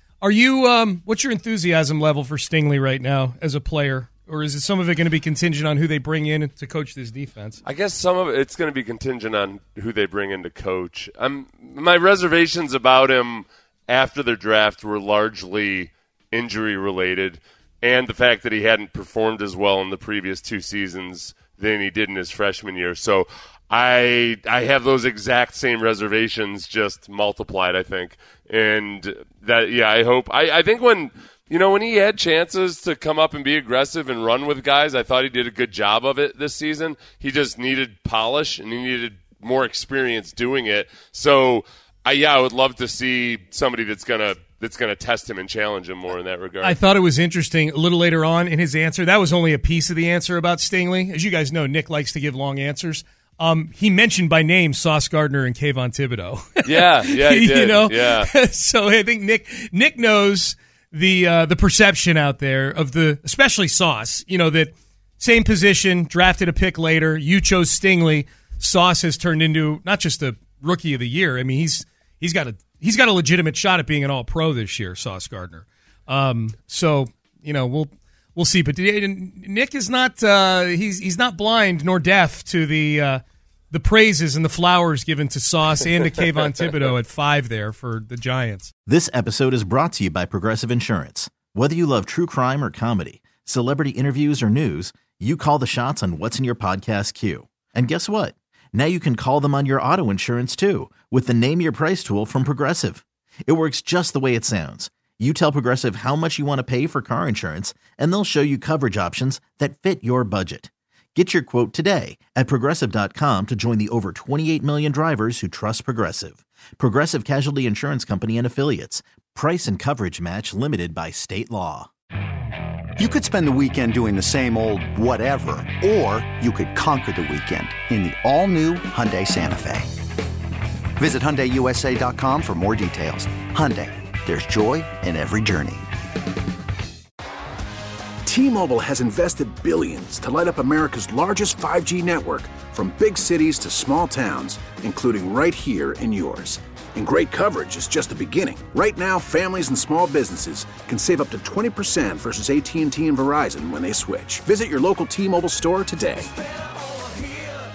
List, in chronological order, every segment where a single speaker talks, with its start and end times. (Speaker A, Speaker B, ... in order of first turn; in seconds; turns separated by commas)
Speaker A: 0.2-7.6, Speaker B: 7.6-46.8, Speaker A: 46.6-88.7, Speaker B: 56.7-58.3, Speaker C: 88.9-121.9, Speaker D: 123.0-129.9, Speaker D: 131.0-135.8, Speaker E: 138.3-156.3